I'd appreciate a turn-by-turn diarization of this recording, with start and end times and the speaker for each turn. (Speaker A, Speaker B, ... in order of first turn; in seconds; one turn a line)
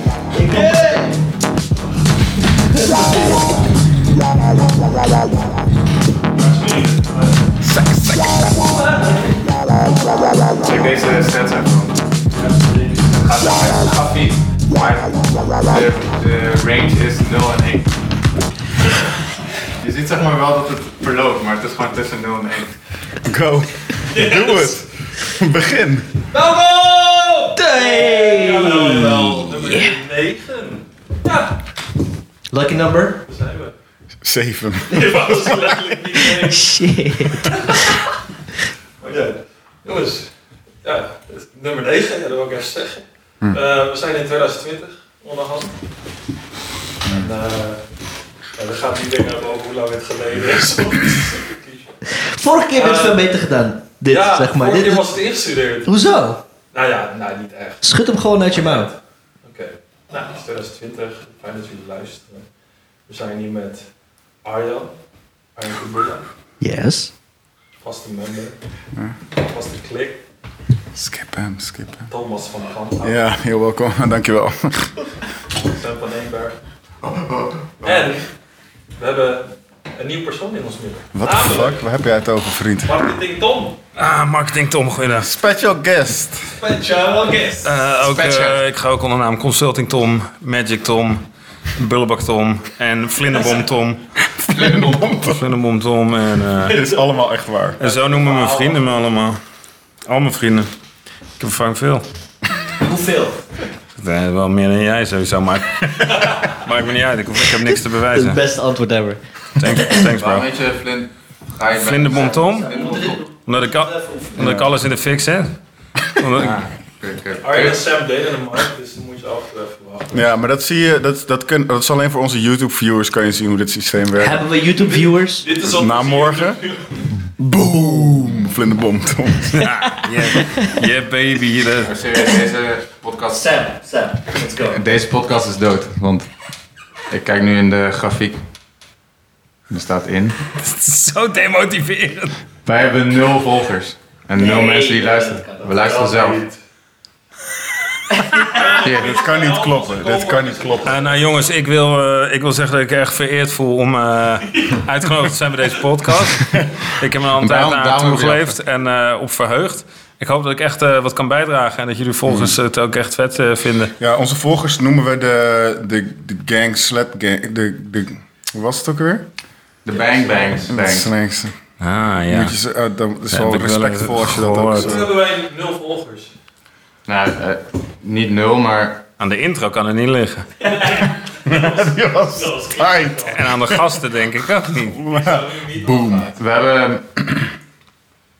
Speaker A: 0.3-1.2
Speaker B: 0.4-0.9
Speaker A: 2.6-3.5
Speaker B: 6.3-7.5
Speaker C: 7.7-8.5
Speaker A: 8.9-9.3
Speaker D: 10.6-12.0
Speaker B: 12.4-13.2
Speaker D: 13.1-17.9
Speaker D: 19.8-22.7
Speaker C: 23.2-26.1
Speaker B: 24.1-24.8
Speaker B: 26.3-31.6
Speaker A: 27.5-30.0
Speaker A: 32.5-33.2
Speaker B: 33.3-33.7
Speaker C: 34.2-35.9
Speaker B: 34.9-36.9
Speaker A: 36.2-38.0
Speaker B: 37.4-38.1
Speaker B: 39.0-45.8
Speaker B: 47.0-47.8
Speaker B: 48.6-52.0
Speaker A: 52.2-55.2
Speaker B: 52.7-53.3
Speaker B: 54.1-55.9
Speaker A: 55.8-56.4
Speaker B: 56.7-57.9
Speaker A: 57.8-58.9
Speaker B: 58.5-58.9
Speaker B: 59.4-62.5
Speaker B: 63.0-63.9
Speaker B: 64.4-64.9
Speaker B: 65.5-66.3
Speaker A: 66.6-67.1
Speaker B: 67.8-68.6
Speaker B: 69.3-70.2
Speaker C: 70.9-72.1
Speaker B: 72.1-73.2
Speaker C: 73.0-75.0
Speaker B: 75.6-76.5
Speaker C: 77.3-77.8
Speaker B: 77.8-78.2
Speaker B: 79.0-81.8
Speaker C: 81.1-83.0
Speaker B: 82.8-83.8
Speaker E: 84.0-85.3
Speaker C: 85.2-86.5
Speaker B: 86.6-87.8
Speaker E: 87.6-91.2
Speaker D: 88.0-88.6
Speaker E: 91.8-94.0
Speaker C: 94.3-95.4
Speaker D: 94.5-95.2
Speaker E: 95.2-96.8
Speaker B: 96.6-97.2
Speaker C: 96.7-97.8
Speaker B: 97.8-98.9
Speaker E: 97.8-99.4
Speaker E: 100.1-100.7
Speaker E: 101.4-102.0
Speaker A: 102.7-103.4
Speaker E: 104.0-108.4
Speaker B: 106.1-106.5
Speaker A: 107.7-110.0
Speaker E: 109.6-110.5
Speaker D: 109.9-113.2
Speaker E: 111.7-112.7
Speaker A: 112.3-114.3
Speaker E: 113.4-116.7
Speaker C: 114.4-114.7
Speaker D: 116.4-117.9
Speaker B: 117.4-120.3
Speaker C: 120.1-124.5
Speaker A: 124.2-125.5
Speaker B: 124.7-127.1
Speaker C: 125.6-126.6
Speaker C: 127.3-129.7
Speaker E: 129.5-131.9
Speaker A: 130.2-130.8
Speaker D: 131.8-133.4
Speaker A: 133.3-134.8
Speaker D: 134.7-136.3
Speaker D: 137.1-138.4
Speaker D: 139.7-140.4
Speaker E: 140.5-142.3
Speaker D: 142.6-146.4
Speaker A: 144.3-145.8
Speaker B: 145.8-146.6
Speaker B: 148.3-151.4
Speaker D: 148.8-149.2
Speaker C: 148.9-151.0
Speaker E: 150.8-163.9
Speaker B: 154.4-154.8
Speaker C: 156.4-156.8
Speaker D: 157.4-158.6
Speaker C: 162.2-162.6
Speaker C: 164.0-169.3
Speaker D: 169.8-171.1
Speaker C: 170.7-171.5
Speaker E: 171.8-172.5
Speaker C: 172.3-175.2
Speaker E: 173.3-175.0
Speaker B: 174.7-176.3
Speaker D: 177.1-179.0
Speaker E: 179.2-180.5
Speaker B: 180.6-183.4
Speaker C: 181.4-183.9
Speaker E: 183.3-185.0
Speaker C: 184.7-186.3
Speaker B: 185.0-186.3
Speaker D: 186.3-187.2